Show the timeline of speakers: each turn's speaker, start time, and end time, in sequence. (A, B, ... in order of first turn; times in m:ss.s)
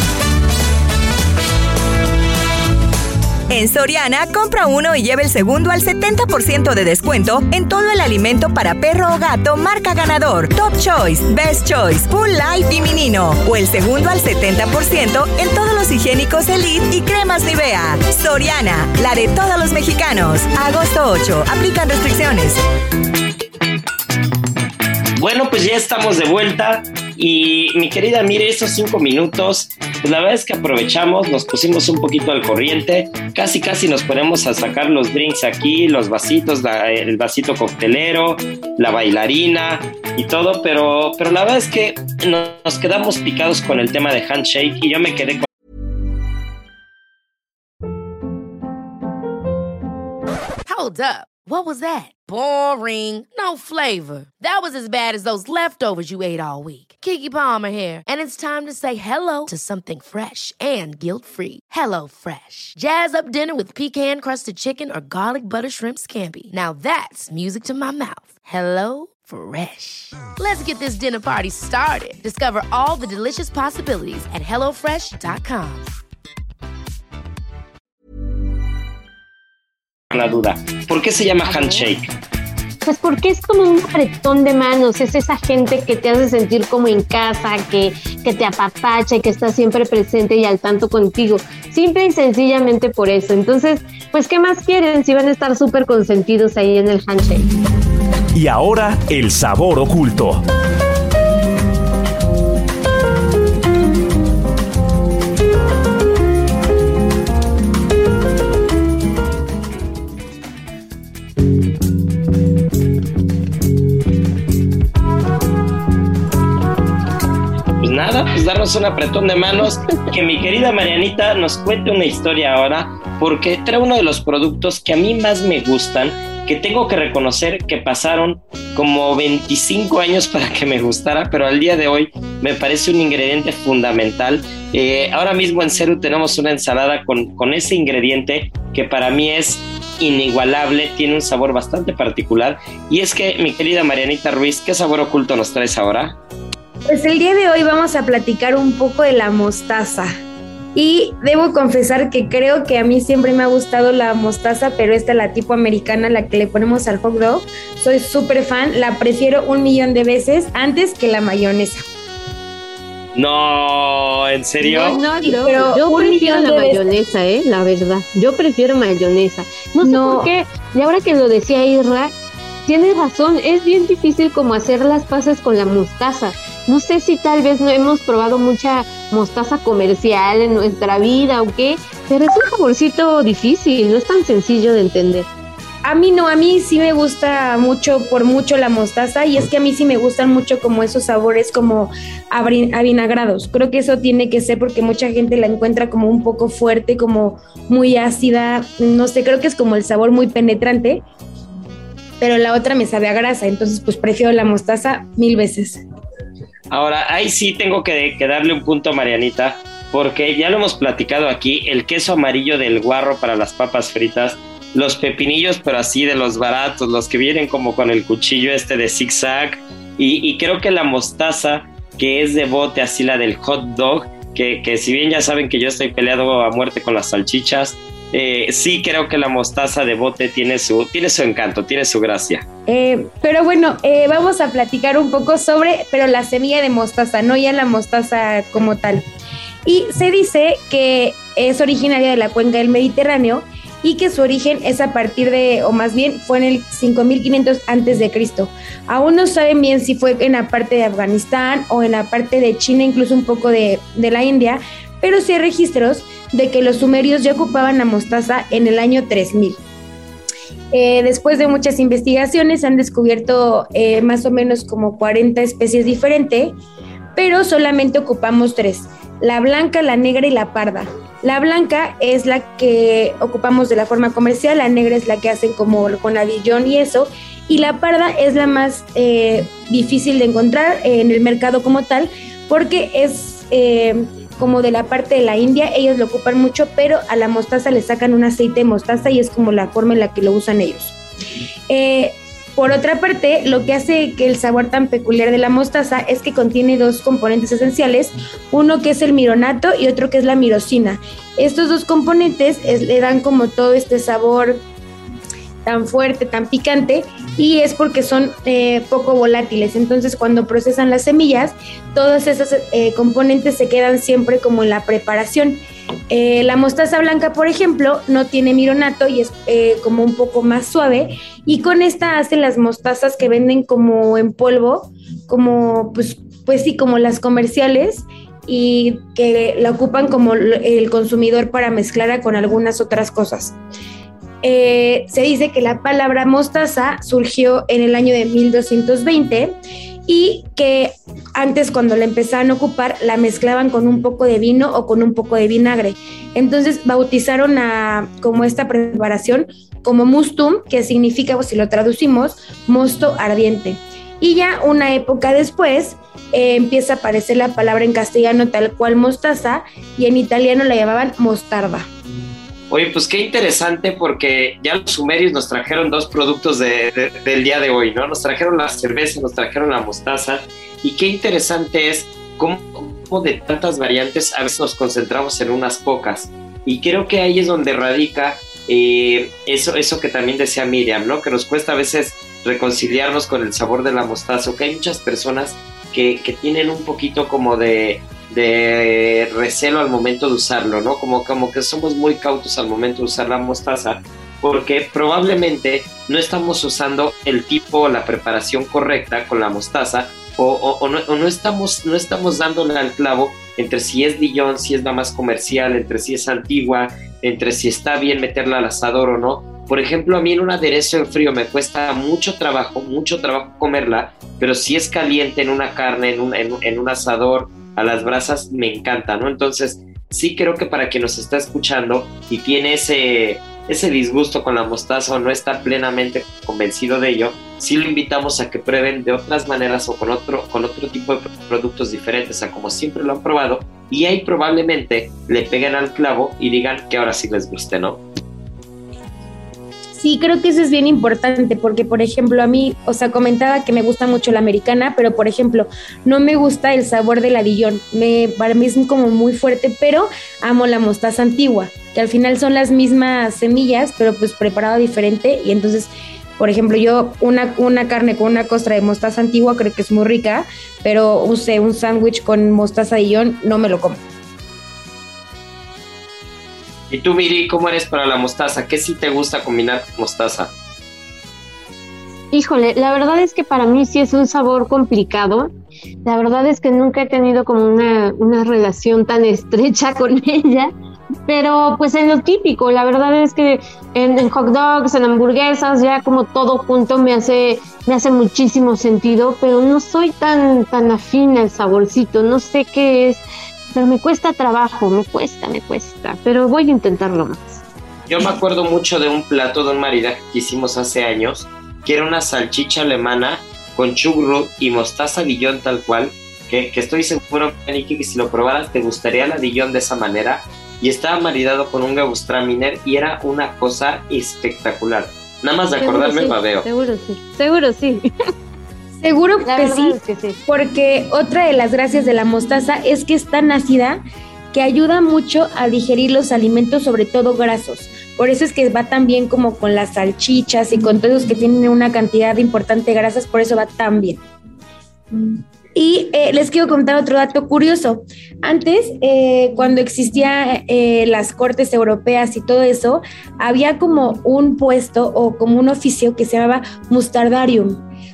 0:03.5-0:22.6 A
0:25.2-0:45.5 B
0:50.7-1:15.9 C
1:20.1-1:22.1 B
1:22.8-1:37.5 D
1:38.4-1:40.4 E
1:57.8-2:26.2 B
2:26.9-2:30.1 F
2:30.8-2:41.8 F
2:43.2-2:45.0 B
2:44.6-2:52.1 D
2:45.2-2:46.8 F
2:49.8-2:50.3 F
2:52.7-3:05.3 D
3:05.8-3:21.0 F
3:22.2-3:25.8 F
3:26.7-3:52.5 B
3:52.7-3:59.0 F
3:59.6-4:19.6 F
4:20.7-4:26.6 F
4:27.2-4:51.0 F
4:51.7-5:04.6 F
5:05.6-5:33.6 F
5:34.4-5:39.6 F
5:40.1-6:01.9 F
6:02.7-7:18.0 B
7:20.0-7:44.0 F
7:46.9-7:50.5 B
7:52.3-7:55.5 D
7:56.0-8:00.7 D
8:01.3-8:17.6 D
8:18.1-8:36.7 B
8:35.8-8:38.1 D
8:39.0-8:44.0 F
8:39.4-8:40.4 D
8:44.5-8:54.2 F
8:55.2-9:07.8 F